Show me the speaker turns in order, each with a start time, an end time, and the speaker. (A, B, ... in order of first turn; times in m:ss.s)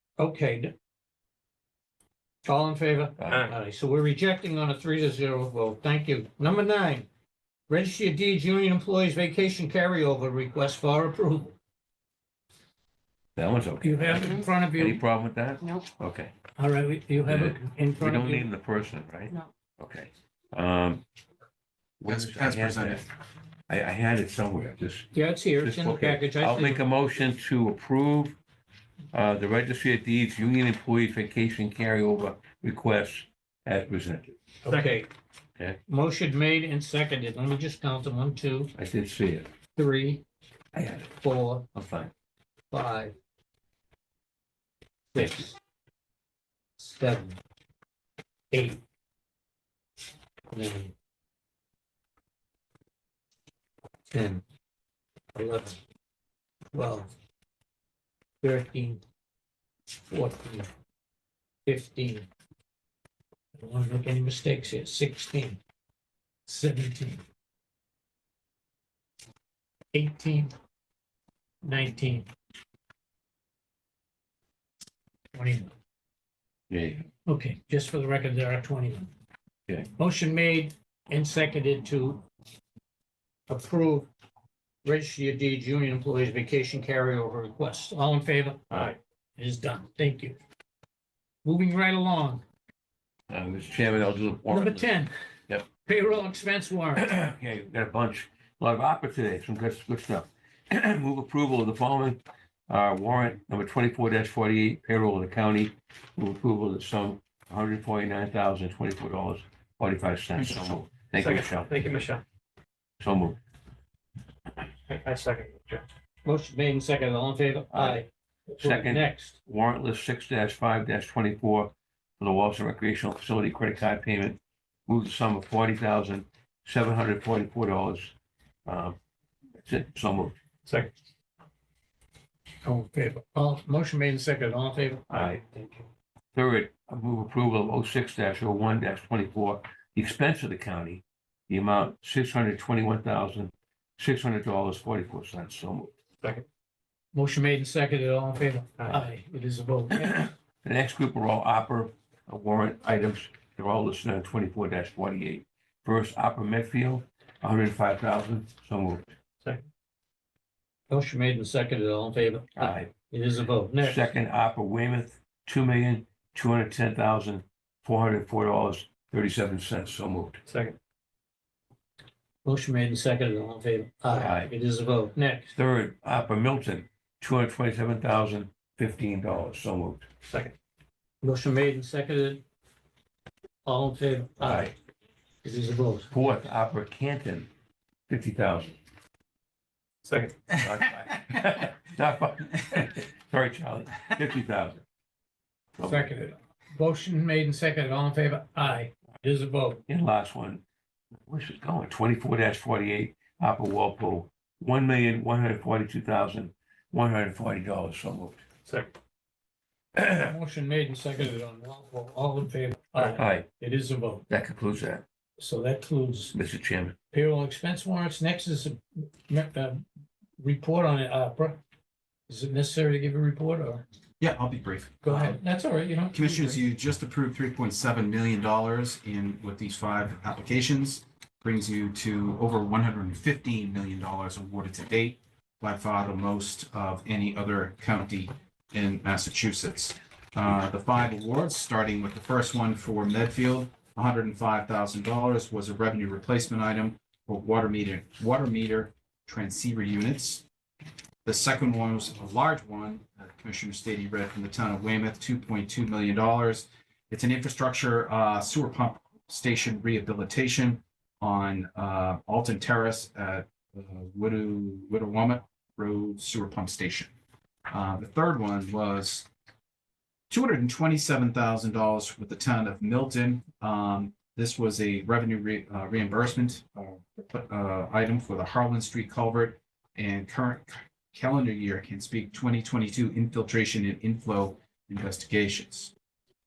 0:00.2-0:00.8 A
0:02.4-0:07.1 A
0:03.2-0:03.5 B
0:07.7-0:11.6 A
0:13.4-0:16.3 B
0:13.8-0:15.0 A
0:16.6-0:18.5 A
0:17.3-0:21.0 B
0:22.0-0:23.0 B
0:22.1-0:23.0 C
0:23.7-0:28.4 B
0:25.1-0:26.8 A
0:29.1-0:34.4 B
0:34.6-0:35.1 A
0:34.7-0:35.0 D
0:35.9-0:38.7 A
0:38.8-0:39.5 B
0:39.8-0:40.2 A
0:40.7-0:41.2 B
0:41.2-0:41.7 A
0:41.8-0:42.1 B
0:42.7-0:43.2 A
0:45.1-0:45.6 A
0:46.8-0:47.4 A
0:48.5-0:48.8 A
0:50.5-0:50.9 A
0:54.1-0:54.4 A
0:55.4-0:55.8 A
0:56.7-0:57.1 A
0:58.4-0:59.0 A
1:00.1-1:00.7 A
1:01.7-1:02.3 A
1:03.6-1:05.6 A
1:06.5-1:07.2 A
1:09.9-1:10.5 A
1:11.6-1:12.3 A
1:15.3-1:15.7 A
1:16.7-1:17.1 B
1:17.3-1:19.1 A
1:19.9-1:22.3 A
1:23.5-1:24.1 A
1:24.8-1:28.6 A
1:28.7-1:29.0 D
1:29.4-1:30.4 A
1:31.4-1:32.4 A
1:33.3-1:34.9 B
1:34.5-1:35.1 A
1:35.7-1:37.1 A
1:37.0-1:51.7 B
1:51.2-1:52.2 D
1:53.0-1:53.4 B
1:54.9-1:55.9 D
1:56.2-1:59.4 A
1:57.7-1:58.0 B
1:58.6-2:08.1 B
2:08.7-2:09.0 B
2:09.6-2:10.4 B
2:12.6-2:15.1 A
2:15.1-2:15.8 D
2:16.3-2:25.9 B
2:27.1-2:30.3 A
2:28.8-2:29.0 D
2:30.6-2:39.1 B
2:40.9-2:44.1 A
2:42.6-2:42.9 B
2:43.8-2:50.4 B
2:50.5-2:50.8 D
2:52.4-2:55.5 A
2:54.1-2:54.5 B
2:55.6-3:00.1 B
3:00.2-3:00.5 D
3:01.2-3:02.4 A
3:03.6-3:04.8 A
3:04.4-3:04.7 B
3:05.4-3:06.1 A
3:06.1-3:07.5 B
3:08.1-3:08.8 B
3:10.1-3:10.5 D
3:10.6-3:14.8 B
3:15.8-3:16.1 B
3:15.8-3:19.8 A
3:19.9-3:20.6 B
3:21.3-3:28.4 B
3:30.0-3:30.3 B
3:30.2-3:34.2 A
3:33.2-3:33.5 B
3:34.3-3:35.0 B
3:35.4-3:36.4 A
3:36.3-3:37.0 B
3:37.1-3:39.8 A
3:40.4-3:41.6 A
3:42.3-3:43.8 A
3:44.2-3:45.4 C
3:45.0-3:46.6 A
3:46.1-4:10.4 C
4:11.2-4:27.1 C
4:27.7-4:29.3 C
4:30.3-4:45.9 C